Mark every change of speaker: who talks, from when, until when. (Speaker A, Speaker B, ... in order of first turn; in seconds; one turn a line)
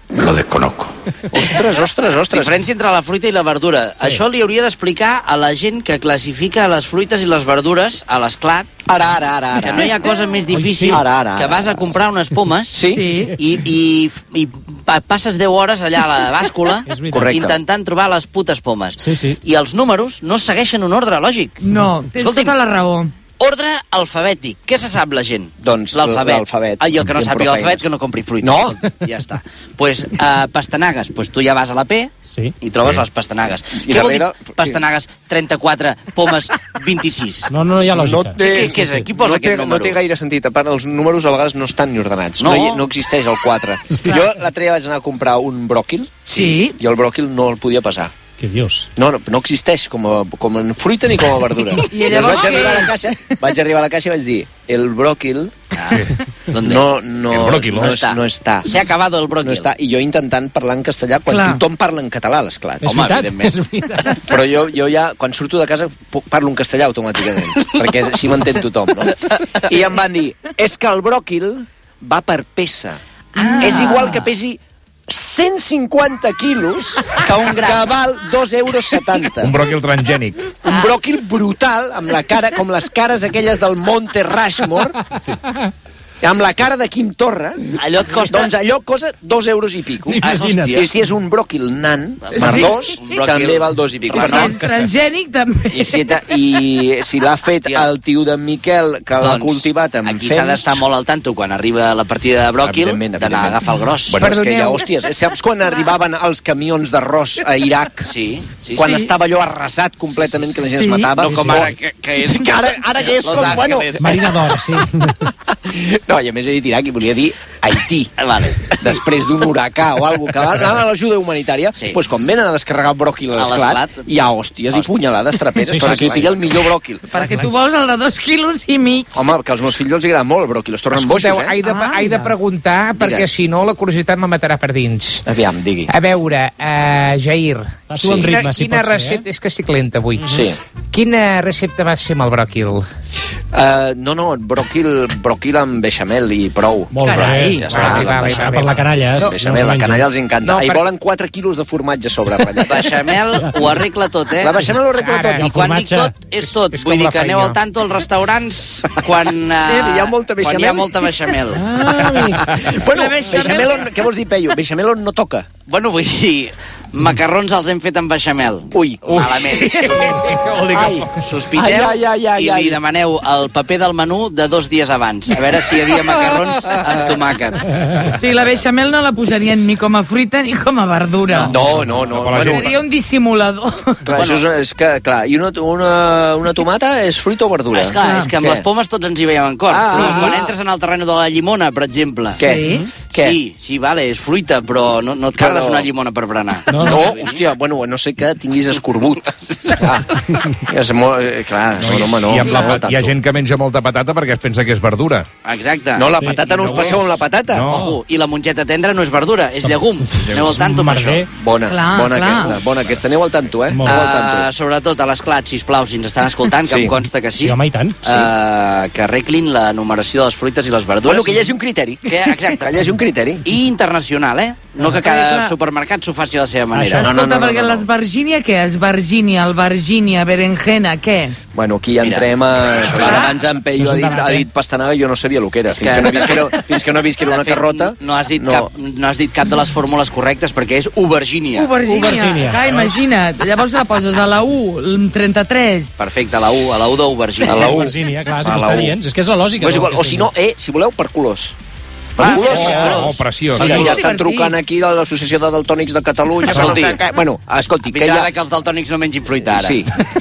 Speaker A: 0.1-1.6
Speaker B: 1.3-2.6
Speaker A: 2.3-8.7
Speaker B: 8.9-10.1
Speaker A: 9.6-21.6
Speaker C: 10.5-11.0
Speaker B: 10.9-12.0
Speaker B: 12.7-13.1
Speaker D: 12.9-13.4
Speaker C: 16.9-17.5
Speaker B: 17.1-17.6
Speaker C: 19.0-19.4
Speaker D: 21.6-23.1
Speaker A: 22.2-22.5
Speaker A: 23.4-37.5
Speaker B: 25.6-27.9
Speaker B: 28.4-28.8
Speaker C: 32.2-32.5
Speaker B: 33.8-34.8
Speaker C: 37.5-39.0
Speaker B: 38.0-48.1
Speaker A: 38.4-40.0
Speaker A: 42.4-42.8
Speaker D: 46.3-46.8
Speaker C: 48.4-48.9
Speaker B: 49.0-55.5
Speaker D: 51.9-53.0
Speaker A: 55.7-57.2
Speaker B: 56.6-58.7
Speaker E: 57.3-58.0
Speaker A: 57.7-59.7
Speaker B: 59.4-62.9
Speaker D: 61.3-61.6
Speaker C: 62.8-64.2
Speaker A: 62.9-63.5
Speaker B: 64.3-73.0
Speaker A: 69.3-69.7
Speaker D: 73.4-74.1
Speaker A: 73.4-74.2
Speaker B: 73.6-79.6
Speaker A: 77.2-77.9
Speaker E: 79.4-80.5
Speaker B: 80.6-85.0
Speaker B: 86.2-87.6
Speaker A: 87.8-88.5
Speaker B: 88.2-94.6
Speaker C: 90.1-90.8
Speaker A: 90.2-90.9
Speaker A: 92.3-94.5
Speaker D: 92.4-92.7
Speaker D: 94.1-96.0
Speaker B: 95.7-100.8
Speaker A: 97.6-97.9
Speaker A: 99.2-104.2
Speaker B: 102.6-108.1
Speaker F: 104.2-104.7
Speaker A: 108.1-109.1
Speaker B: 108.7-114.1
Speaker A: 110.2-110.5
Speaker D: 110.7-111.1
Speaker C: 111.2-111.7
Speaker A: 111.2-114.3
Speaker C: 114.0-115.3
Speaker B: 115.5-118.1
Speaker A: 118.2-118.8
Speaker B: 118.7-127.1
Speaker A: 123.3-124.0
Speaker C: 125.7-126.2
Speaker A: 125.9-126.5
Speaker D: 127.1-129.1
Speaker B: 129.1-131.6
Speaker F: 131.1-135.2
Speaker D: 131.6-132.3
Speaker B: 132.9-133.3
Speaker B: 135.3-135.9
Speaker F: 135.9-140.3
Speaker C: 137.9-139.2
Speaker E: 138.0-138.3
Speaker B: 140.3-140.6
Speaker F: 140.9-142.8
Speaker B: 143.5-148.6
Speaker C: 146.9-150.1
Speaker D: 147.0-147.6
Speaker A: 147.2-148.6
Speaker F: 147.7-148.7
Speaker B: 149.2-153.0
Speaker A: 152.7-154.6
Speaker B: 154.4-155.5
Speaker F: 155.0-155.4
Speaker C: 155.3-156.2
Speaker A: 155.3-161.6
Speaker E: 156.4-157.6
Speaker D: 159.7-160.0
Speaker B: 159.7-165.5
Speaker E: 162.3-162.7
Speaker D: 162.8-164.0
Speaker A: 165.7-170.2
Speaker B: 168.7-169.4
Speaker E: 169.9-171.2
Speaker B: 170.7-172.8
Speaker A: 171.2-177.7
Speaker D: 178.2-181.5
Speaker A: 181.3-181.6
Speaker B: 181.4-182.7
Speaker E: 181.7-182.8
Speaker D: 182.3-184.0
Speaker B: 184.1-188.7
Speaker A: 184.2-184.4
Speaker A: 187.7-192.4
Speaker D: 188.0-188.3
Speaker B: 189.7-190.5
Speaker B: 192.4-193.4
Speaker D: 192.4-192.9
Speaker A: 193.1-197.4
Speaker B: 195.3-195.9
Speaker C: 196.7-197.1
Speaker B: 196.8-203.1
Speaker A: 199.3-199.9
Speaker E: 201.8-205.3
Speaker D: 202.4-202.8
Speaker A: 205.4-206.1
Speaker B: 205.9-207.6
Speaker C: 206.2-207.0
Speaker E: 206.4-207.9
Speaker C: 207.7-208.0
Speaker A: 207.7-211.3
Speaker C: 209.6-211.3
Speaker B: 211.4-214.5
Speaker D: 211.7-212.6
Speaker C: 213.7-214.1
Speaker A: 213.8-221.5
Speaker B: 216.7-216.9
Speaker C: 217.3-218.0
Speaker B: 218.1-218.3
Speaker B: 221.0-223.4
Speaker A: 222.1-222.7
Speaker A: 223.4-227.1
Speaker D: 224.8-225.6
Speaker C: 226.7-227.1
Speaker B: 227.0-227.9
Speaker D: 227.0-231.4
Speaker B: 231.5-238.7
Speaker A: 232.0-233.3
Speaker D: 233.0-233.3
Speaker C: 233.8-234.5
Speaker A: 235.7-236.6
Speaker A: 237.2-241.8
Speaker D: 241.5-246.0
Speaker C: 241.8-242.9
Speaker A: 246.0-247.7
Speaker B: 247.4-248.9
Speaker C: 247.5-250.3
Speaker B: 249.6-251.6
Speaker B: 252.2-258.3
Speaker A: 252.2-254.0
Speaker E: 252.4-253.9
Speaker D: 253.5-254.6
Speaker A: 256.4-257.0
Speaker A: 257.9-259.9
Speaker B: 259.5-259.9